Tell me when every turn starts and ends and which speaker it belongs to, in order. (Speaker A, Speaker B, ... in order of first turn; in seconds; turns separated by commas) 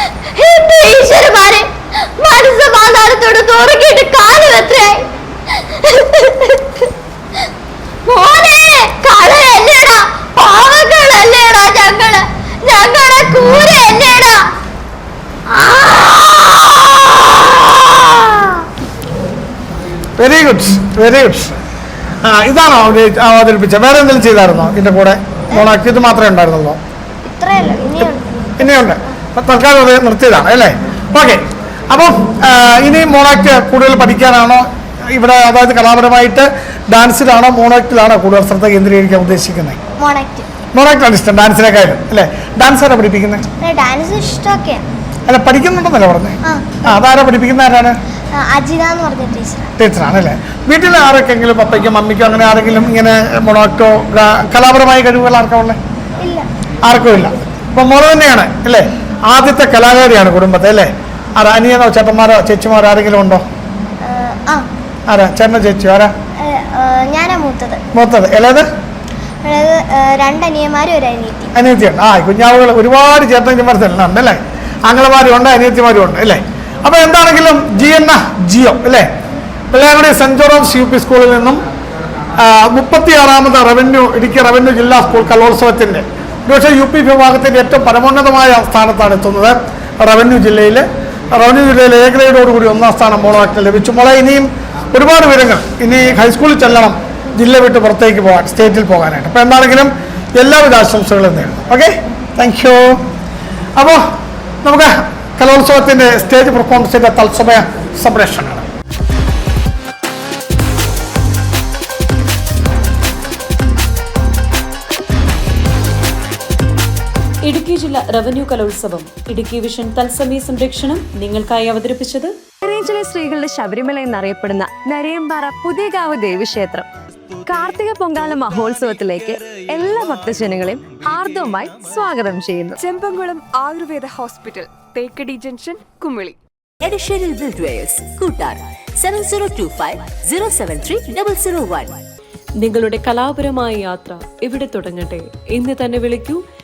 Speaker A: 0.3-5.1, Speaker A: 5.8-6.7, Speaker A: 8.1-14.5, Speaker A: 15.5-18.5, Speaker B: 20.2-21.6, Speaker B: 22.2-26.8, Speaker A: 27.3-28.9, Speaker B: 28.0-39.8, Speaker A: 40.0-40.5, Speaker B: 40.7-43.5, Speaker A: 43.6-44.8, Speaker B: 45.3-48.0, Speaker A: 46.5-47.0, Speaker A: 48.4-49.7, Speaker B: 49.8-55.8, Speaker A: 56.2-56.5, Speaker B: 56.9-63.5, Speaker A: 64.0-64.7, Speaker B: 65.1-66.1, Speaker A: 66.4-67.8, Speaker B: 67.9-68.7, Speaker A: 69.4-71.5, Speaker B: 71.5-79.1, Speaker B: 79.7-81.6, Speaker B: 82.4-103.0, Speaker B: 103.8-104.0, Speaker B: 104.7-108.7, Speaker C: 117.5-122.3, Speaker D: 122.6-126.9, Speaker D: 127.5-132.8, Speaker E: 132.8-136.4, Speaker F: 136.8-142.0, Speaker C: 142.6-146.4